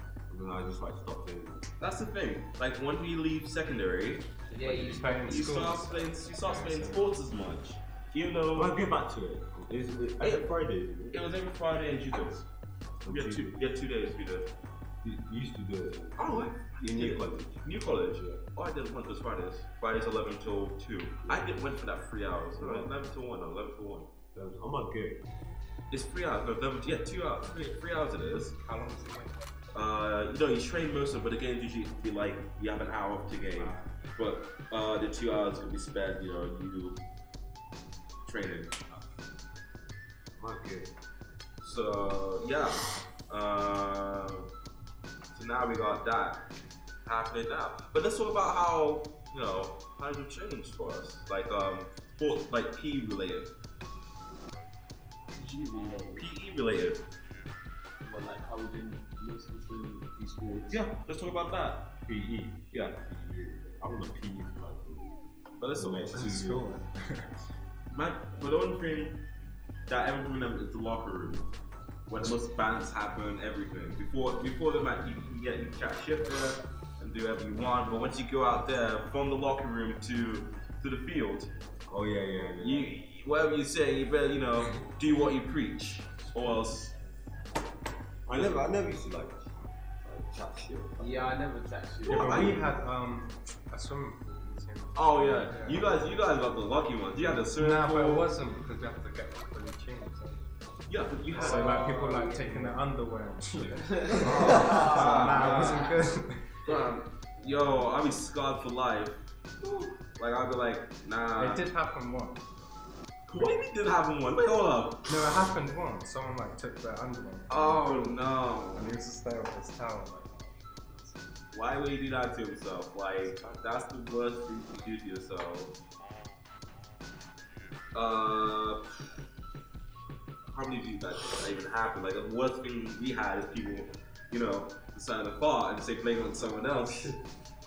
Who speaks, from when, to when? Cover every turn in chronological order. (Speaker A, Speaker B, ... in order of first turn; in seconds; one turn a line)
Speaker A: 0.3-1.6
Speaker B: 1.8-4.3
Speaker C: 4.5-5.6
Speaker D: 4.6-7.1
Speaker B: 5.2-8.8
Speaker A: 8.5-11.3
Speaker B: 10.2-10.5
Speaker B: 11.1-12.4
Speaker A: 13.0-13.6
Speaker B: 13.1-14.5
Speaker A: 15.0-18.4
Speaker B: 16.2-24.1
Speaker A: 21.2-21.5
Speaker A: 22.6-22.9
Speaker A: 24.3-25.2
Speaker B: 25.9-28.5
Speaker D: 28.6-29.3
Speaker B: 29.7-37.0
Speaker D: 33.6-33.9
Speaker B: 38.2-38.8
Speaker A: 40.4-40.9
Speaker B: 41.6-44.5
Speaker B: 45.3-46.4
Speaker B: 47.0-53.5
Speaker C: 55.7-56.0
Speaker E: 55.8-56.2
Speaker B: 56.1-57.0
Speaker E: 58.1-60.1
Speaker B: 60.7-61.9
Speaker A: 62.0-65.2
Speaker B: 65.6-66.3
Speaker A: 65.7-66.7
Speaker D: 66.1-67.3
Speaker B: 67.9-69.2
Speaker B: 69.9-71.5
Speaker B: 72.1-81.5
Speaker A: 81.8-82.9
Speaker B: 82.6-86.9
Speaker A: 88.2-89.4
Speaker A: 90.0-91.3
Speaker C: 91.0-92.5
Speaker A: 92.0-92.8
Speaker B: 92.1-92.6
Speaker D: 92.1-96.1
Speaker B: 94.9-98.3
Speaker D: 97.3-100.4
Speaker B: 100.9-102.0
Speaker D: 101.3-106.5
Speaker C: 101.3-102.7
Speaker C: 103.8-106.0
Speaker B: 104.1-105.9
Speaker A: 104.3-104.8
Speaker B: 106.7-111.7
Speaker D: 111.3-112.5
Speaker B: 113.3-115.0
Speaker D: 115.0-121.2
Speaker B: 117.5-119.0
Speaker B: 121.5-125.7
Speaker B: 127.9-128.8
Speaker B: 130.4-137.1